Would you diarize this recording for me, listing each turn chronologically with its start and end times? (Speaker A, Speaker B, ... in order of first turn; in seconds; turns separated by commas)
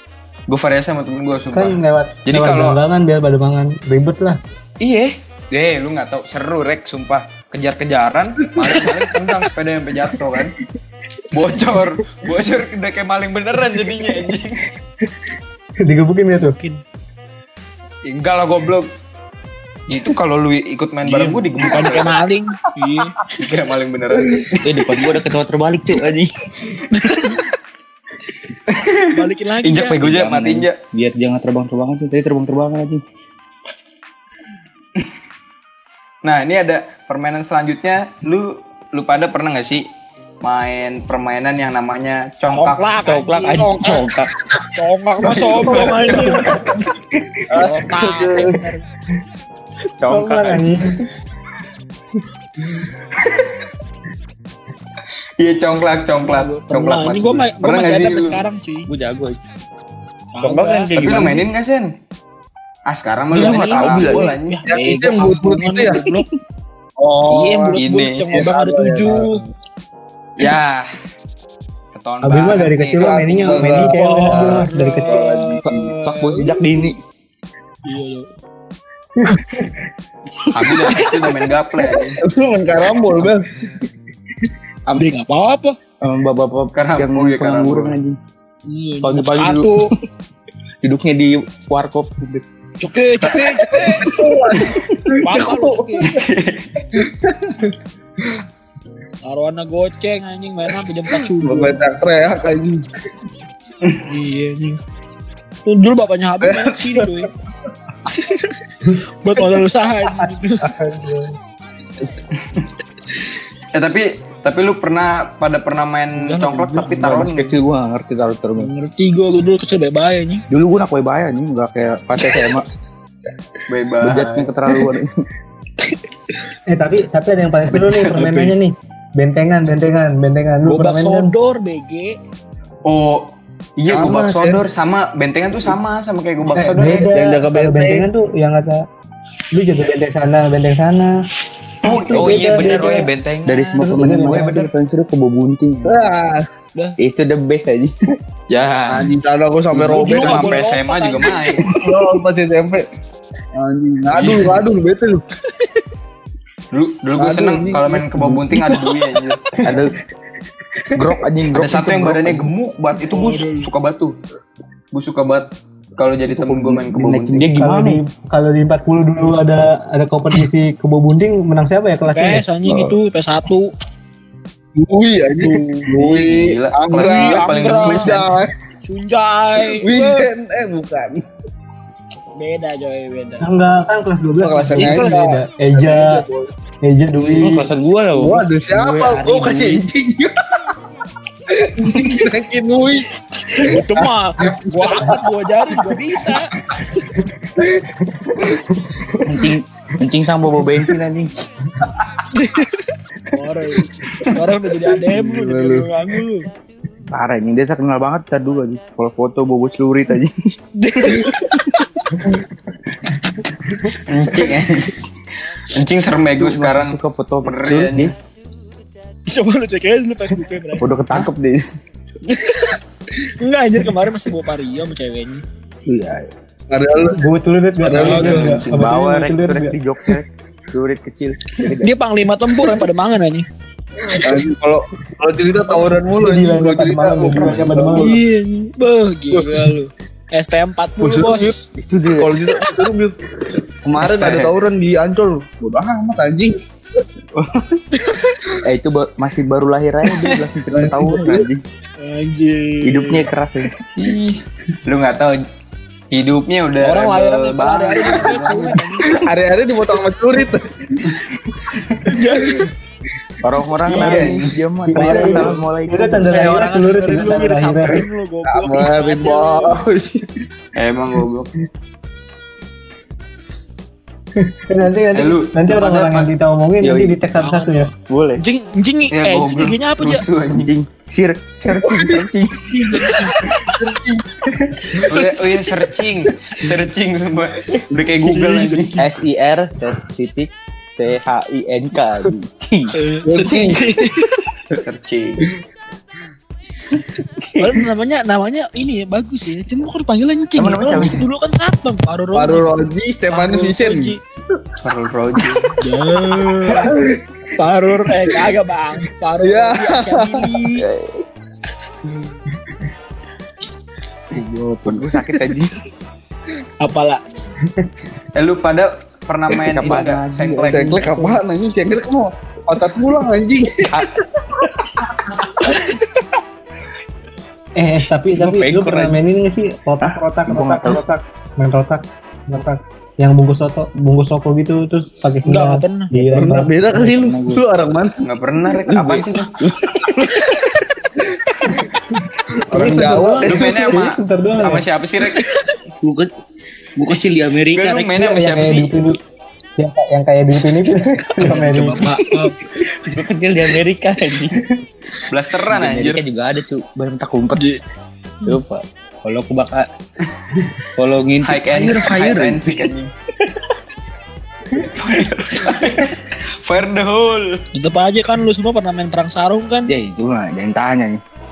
Speaker A: 0.5-2.8, Speaker B: 1.5-4.4, Speaker A: 4.8-10.6, Speaker A: 11.3-14.6, Speaker B: 15.8-16.6, Speaker C: 16.5-16.8, Speaker A: 18.1-18.9, Speaker A: 19.9-22.2, Speaker C: 21.1-23.2, Speaker A: 23.3-24.8, Speaker D: 24.6-26.3, Speaker A: 28.7-30.8, Speaker C: 29.1-30.0, Speaker D: 29.9-33.0, Speaker A: 36.2-39.9, Speaker A: 40.4-43.0, Speaker C: 42.5-43.7, Speaker D: 43.0-44.3, Speaker E: 43.5-44.1, Speaker C: 44.8-46.6, Speaker A: 45.3-46.4, Speaker E: 45.3-46.7, Speaker B: 45.7-46.8, Speaker E: 47.5-48.6, Speaker C: 47.5-48.8, Speaker D: 50.0-50.7, Speaker B: 50.1-51.0, Speaker A: 55.4-58.5, Speaker C: 56.5-58.9, Speaker D: 58.9-59.4, Speaker C: 60.3-61.1, Speaker E: 60.4-61.5, Speaker A: 60.9-62.0, Speaker A: 62.9-64.6, Speaker D: 63.3-64.3, Speaker C: 63.5-66.3, Speaker E: 64.7-66.1, Speaker E: 67.0-69.4, Speaker C: 67.3-69.4, Speaker A: 67.8-68.3, Speaker A: 70.4-70.9, Speaker A: 71.9-73.8, Speaker B: 72.2-75.2, Speaker E: 73.0-75.7, Speaker C: 73.8-76.6, Speaker D: 75.6-77.0, Speaker C: 77.8-78.3, Speaker B: 79.2-79.7, Speaker A: 80.5-82.2, Speaker D: 80.7-80.9, Speaker E: 82.2-83.5, Speaker D: 84.9-85.2, Speaker C: 85.0-85.8, Speaker D: 86.0-88.2, Speaker A: 86.7-88.0, Speaker C: 88.7-89.9, Speaker D: 89.0-89.9, Speaker D: 90.8-92.5, Speaker C: 92.8-94.3, Speaker E: 93.3-96.2, Speaker C: 95.2-96.1, Speaker A: 96.1-96.8, Speaker E: 97.0-98.4, Speaker C: 99.2-101.8, Speaker E: 101.4-102.9, Speaker C: 104.0-104.8, Speaker C: 105.7-107.3, Speaker E: 106.4-107.3, Speaker C: 108.1-108.6, Speaker C: 109.2-110.7, Speaker B: 110.2-111.3, Speaker A: 113.7-117.6, Speaker C: 116.2-117.2, Speaker D: 116.9-118.7, Speaker C: 118.6-120.5, Speaker D: 120.5-122.7, Speaker A: 123.7-124.5, Speaker D: 124.0-125.2, Speaker B: 126.7-131.3, Speaker C: 130.7-132.2, Speaker A: 132.9-137.1, Speaker E: 133.9-134.6, Speaker B: 136.6-138.8, Speaker E: 137.1-138.1, Speaker B: 139.5-141.2, Speaker B: 141.8-143.1, Speaker A: 141.8-144.7, Speaker D: 142.2-142.8, Speaker D: 143.4-146.1, Speaker B: 143.8-144.7, Speaker E: 145.8-146.5, Speaker D: 147.0-148.1, Speaker A: 148.5-149.1, Speaker E: 148.9-150.6, Speaker C: 149.8-151.6, Speaker A: 149.9-151.7, Speaker E: 151.6-152.9, Speaker E: 153.6-155.2, Speaker A: 154.2-154.5, Speaker A: 156.7-159.4, Speaker E: 157.2-158.8, Speaker D: 159.6-159.9, Speaker D: 160.9-162.5, Speaker A: 161.5-164.2, Speaker C: 162.9-163.7, Speaker A: 164.9-167.5, Speaker D: 166.3-168.0, Speaker B: 167.5-172.4, Speaker C: 172.1-173.7, Speaker E: 172.7-173.0, Speaker E: 174.8-178.5, Speaker C: 175.4-175.9, Speaker A: 176.0-178.3, Speaker C: 176.9-178.3, Speaker C: 178.9-180.3, Speaker E: 179.6-181.2, Speaker C: 182.4-183.4, Speaker B: 183.4-186.2, Speaker E: 184.4-186.5, Speaker C: 184.8-185.1, Speaker B: 186.8-187.7, Speaker D: 187.2-189.8, Speaker E: 188.2-190.7, Speaker E: 191.5-196.4, Speaker C: 193.5-196.5, Speaker B: 198.7-199.2, Speaker D: 199.2-201.3, Speaker C: 202.3-206.5, Speaker E: 205.1-205.9, Speaker D: 207.1-210.4, Speaker C: 210.8-211.8, Speaker A: 213.9-218.1, Speaker D: 216.4-218.1, Speaker C: 219.3-220.9, Speaker D: 220.8-221.8, Speaker C: 222.3-225.4, Speaker D: 225.9-226.3, Speaker E: 226.7-227.2, Speaker B: 227.2-229.8, Speaker E: 227.8-228.7, Speaker C: 228.0-228.6, Speaker A: 228.1-228.7, Speaker D: 228.1-232.0, Speaker C: 231.8-233.5, Speaker E: 234.1-238.2, Speaker B: 236.1-238.2, Speaker C: 237.9-241.6, Speaker E: 239.3-239.7, Speaker E: 241.0-241.6, Speaker D: 241.7-242.4, Speaker E: 242.2-243.2, Speaker E: 243.8-246.6, Speaker A: 244.0-244.5, Speaker D: 247.3-247.8, Speaker C: 247.9-248.3, Speaker D: 248.6-251.6, Speaker E: 250.7-251.5, Speaker C: 252.0-253.3, Speaker D: 252.8-253.7, Speaker A: 254.0-255.4, Speaker A: 256.1-258.8, Speaker C: 256.8-259.2, Speaker E: 259.0-261.2, Speaker C: 262.0-262.7, Speaker D: 263.4-266.5, Speaker A: 263.9-264.6, Speaker B: 264.9-268.1, Speaker C: 265.0-265.4, Speaker C: 266.2-269.9, Speaker E: 268.5-270.4, Speaker A: 270.8-271.5, Speaker B: 274.4-277.9, Speaker A: 275.1-276.3, Speaker D: 276.8-277.2, Speaker C: 277.3-280.3, Speaker D: 278.1-278.4, Speaker A: 279.1-280.7, Speaker D: 280.5-282.9, Speaker C: 282.7-283.7, Speaker E: 282.9-284.0, Speaker B: 284.4-285.0, Speaker C: 285.0-285.3, Speaker A: 285.1-289.0, Speaker C: 288.2-289.1, Speaker D: 289.0-292.9, Speaker C: 292.9-294.5, Speaker E: 293.3-294.1, Speaker A: 294.7-295.5, Speaker D: 297.1-297.9, Speaker C: 297.6-302.8, Speaker D: 300.6-301.3, Speaker E: 302.3-304.2, Speaker C: 303.3-304.2, Speaker A: 304.8-305.8, Speaker C: 305.8-307.0, Speaker E: 306.3-307.2, Speaker C: 307.6-310.9, Speaker E: 307.9-308.5, Speaker E: 309.4-311.2, Speaker E: 314.3-315.3, Speaker D: 314.8-315.8, Speaker C: 316.8-317.2, Speaker A: 318.3-321.0, Speaker D: 319.6-321.4, Speaker E: 320.7-324.1, Speaker B: 327.8-336.7, Speaker D: 328.3-329.2, Speaker D: 330.0-331.0, Speaker C: 335.4-336.1, Speaker E: 336.4-338.2, Speaker D: 336.8-337.6, Speaker A: 338.2-339.6, Speaker D: 338.9-340.6, Speaker E: 342.7-344.0, Speaker B: 342.7-344.9, Speaker A: 343.4-345.5, Speaker C: 345.4-345.6, Speaker D: 346.0-346.3, Speaker D: 347.0-348.2, Speaker A: 347.7-348.9, Speaker B: 348.2-349.2, Speaker B: 349.8-352.1, Speaker C: 351.4-352.6, Speaker D: 351.4-354.6, Speaker A: 355.3-356.2, Speaker D: 355.7-357.7, Speaker C: 357.5-357.8, Speaker D: 358.4-359.9, Speaker D: 361.0-362.9, Speaker A: 361.4-363.1, Speaker A: 364.8-367.6, Speaker C: 367.7-369.9, Speaker D: 369.9-371.2